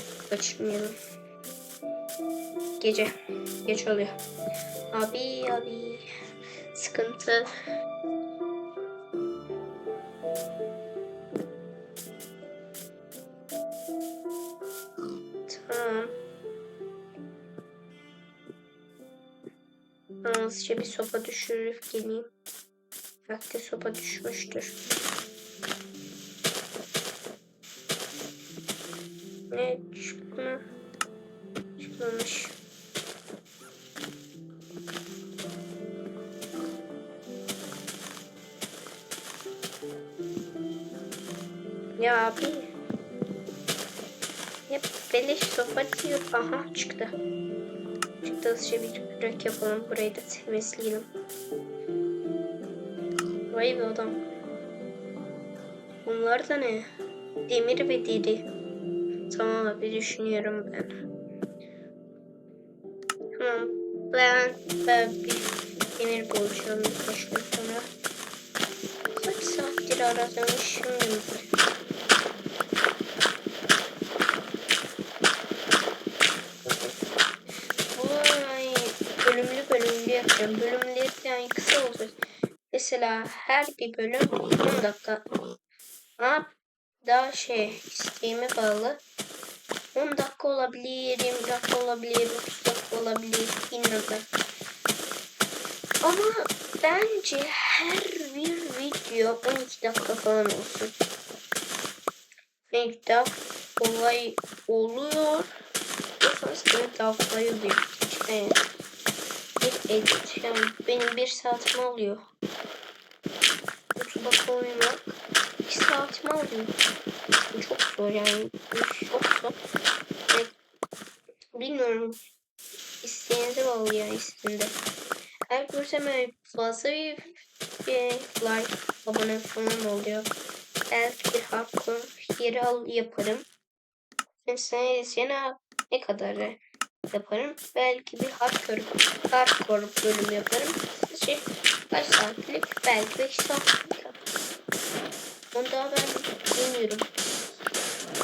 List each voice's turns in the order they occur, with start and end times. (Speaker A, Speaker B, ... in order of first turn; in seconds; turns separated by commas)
Speaker A: 0.3-0.9, Speaker A: 2.8-3.1, Speaker A: 3.6-4.1, Speaker A: 4.9-6.0, Speaker A: 6.7-7.5, Speaker A: 15.5-16.1, Speaker A: 20.2-22.2, Speaker A: 23.3-24.8, Speaker A: 29.5-30.6, Speaker A: 31.8-32.5, Speaker A: 42.0-42.7, Speaker A: 44.7-47.2, Speaker A: 48.2-51.1, Speaker A: 53.5-54.2, Speaker A: 56.0-56.9, Speaker A: 57.5-58.5, Speaker A: 59.3-61.0, Speaker A: 63.3-67.9, Speaker A: 69.1-71.3, Speaker A: 76.6-77.0, Speaker A: 77.9-82.1, Speaker A: 82.7-85.2, Speaker A: 86.2-86.5, Speaker A: 87.0-89.0, Speaker A: 89.9-94.3, Speaker A: 96.0-100.9, Speaker A: 102.7-105.5, Speaker A: 106.2-108.6, Speaker A: 109.6-112.2, Speaker A: 114.0-116.7, Speaker A: 117.5-119.5, Speaker A: 121.5-122.2, Speaker A: 123.0-124.8, Speaker A: 125.5-130.3, Speaker A: 130.9-133.5, Speaker A: 134.4-136.6, Speaker A: 137.1-144.2, Speaker A: 145.5-147.1